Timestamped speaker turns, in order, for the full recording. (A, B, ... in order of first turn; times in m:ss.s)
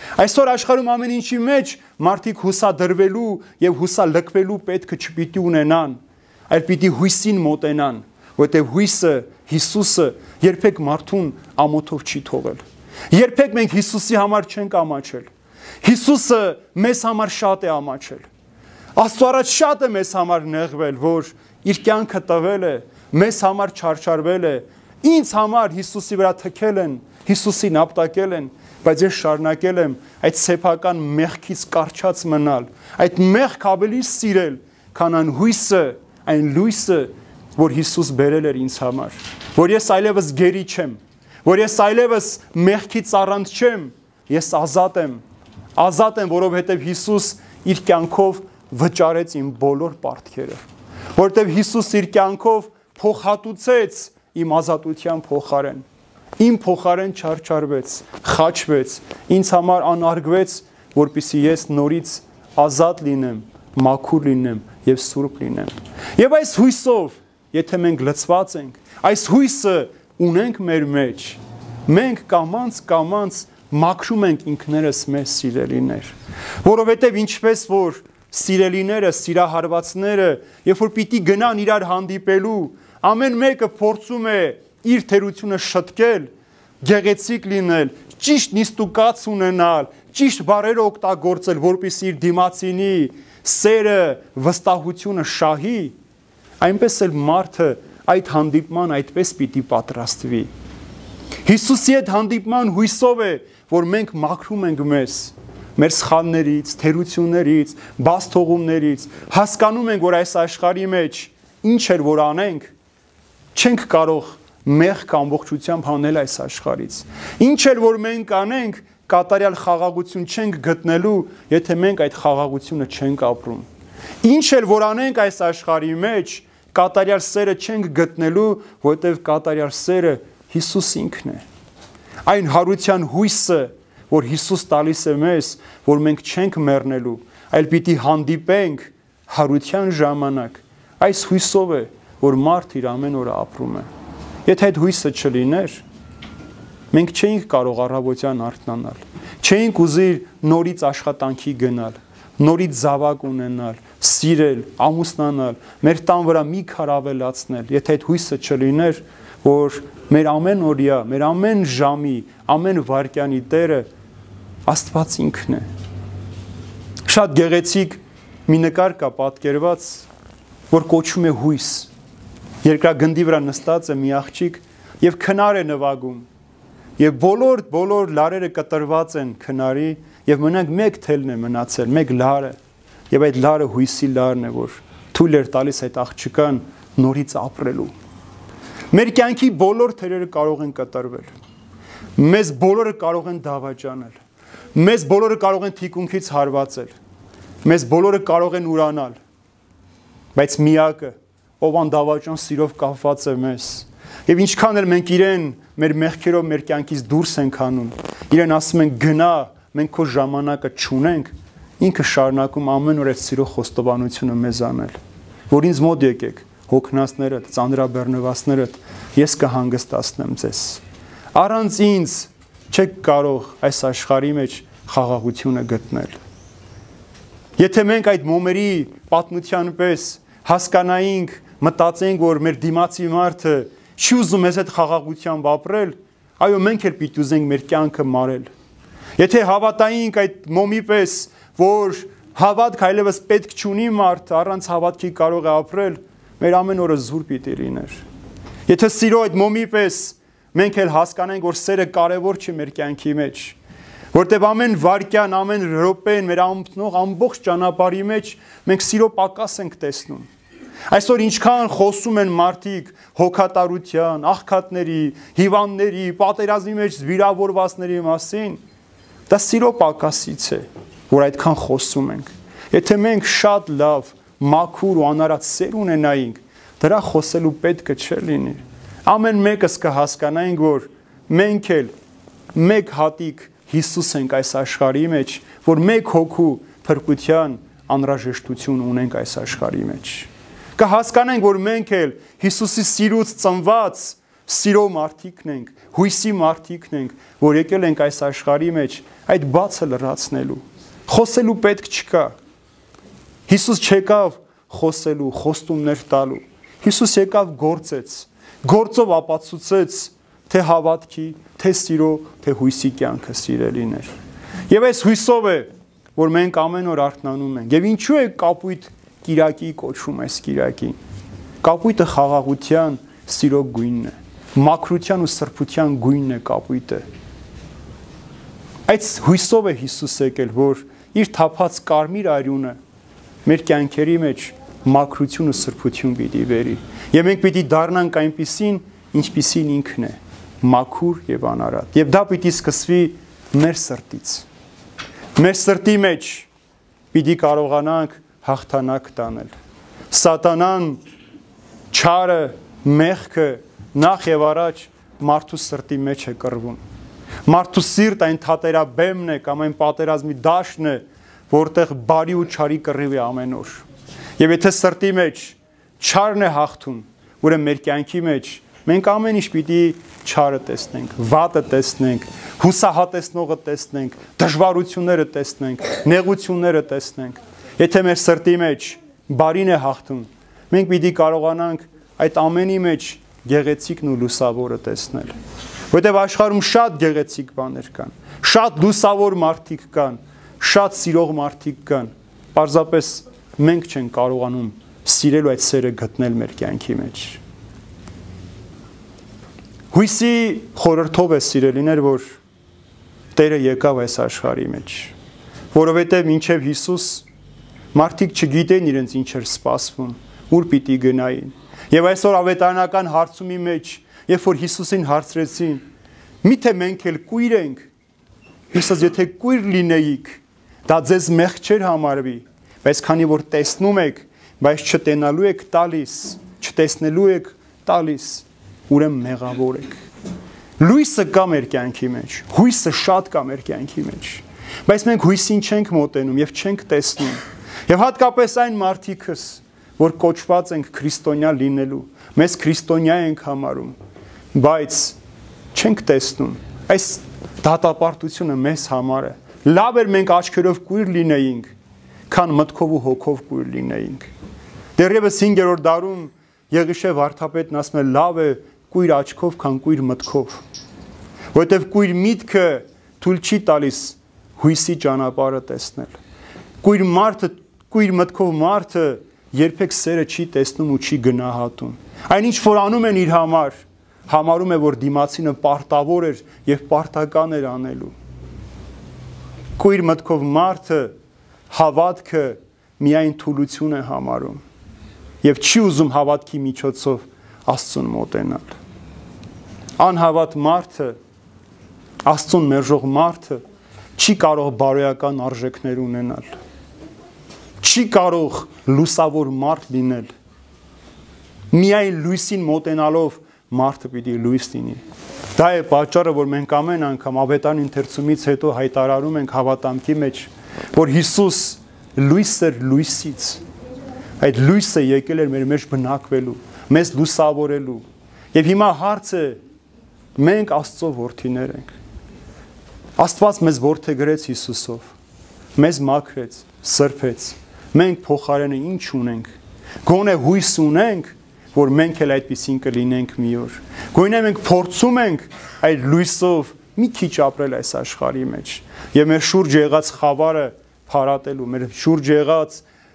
0:00.2-0:15.3 A
0:15.8-0:18.3 A
0:19.0-0:45.2 A
0:45.8-0:50.6 A
0:51.2-0:55.9 A
0:56.4-1:26.3 A
1:26.8-1:36.0 A
1:36.6-1:40.5 A
1:41.4-1:52.7 A
1:53.6-2:03.7 A
2:04.2-2:11.4 A
2:12.3-2:23.9 A
2:24.5-2:25.8 A
2:26.9-2:43.9 A
2:44.7-2:45.7 A
2:47.1-2:50.1 A
2:50.7-2:51.9 A
2:52.6-2:56.3 A
2:57.0-3:02.6 A
3:03.1-3:07.9 A
3:08.9-3:11.3 A
3:12.2-3:14.2 A
3:14.8-3:16.9 A
3:17.6-3:19.2 A
3:20.4-3:35.0 A
3:35.5-3:40.8 A
3:41.4-3:46.2 A
3:47.6-3:58.5 A
3:59.2-4:08.0 A
4:08.7-4:13.6 A
4:14.1-4:20.3 A
4:20.9-4:28.6 A
4:29.3-4:41.9 A
4:42.5-5:02.4 A
5:03.5-5:14.1 A
5:14.7-5:21.0 A
5:21.6-5:27.0 A
5:28.9-5:32.8 A
5:33.4-5:44.5 A
5:45.4-5:46.5 A
5:47.1-5:49.5 A
5:50.1-5:51.0 A
5:51.9-5:56.8 A
5:57.4-6:03.8 A
6:04.4-6:25.3 A
6:25.9-6:37.4 A
6:39.9-6:42.4 A
6:43.4-6:45.1 A
6:45.7-6:47.3 A
6:47.9-6:55.8 A
6:56.4-6:57.9 A
6:58.7-7:10.0 A
7:10.8-7:24.0 A
7:24.5-7:25.2 A
7:25.7-7:31.7 A
7:32.3-7:34.3 A
7:35.0-7:40.6 A
7:41.5-7:46.2 A
7:46.8-7:58.2 A
7:59.8-8:01.1 A
8:01.7-8:04.6 A
8:05.4-8:08.8 A
8:10.0-8:11.2 A
8:12.2-8:13.6 A
8:14.2-8:16.6 A
8:17.8-8:20.3 A
8:21.7-8:25.0 A
8:25.6-8:33.6 A
8:34.4-8:39.6 A
8:40.4-8:41.9 A
8:43.2-8:45.2 A
8:45.8-8:49.5 A
8:50.0-9:02.8 A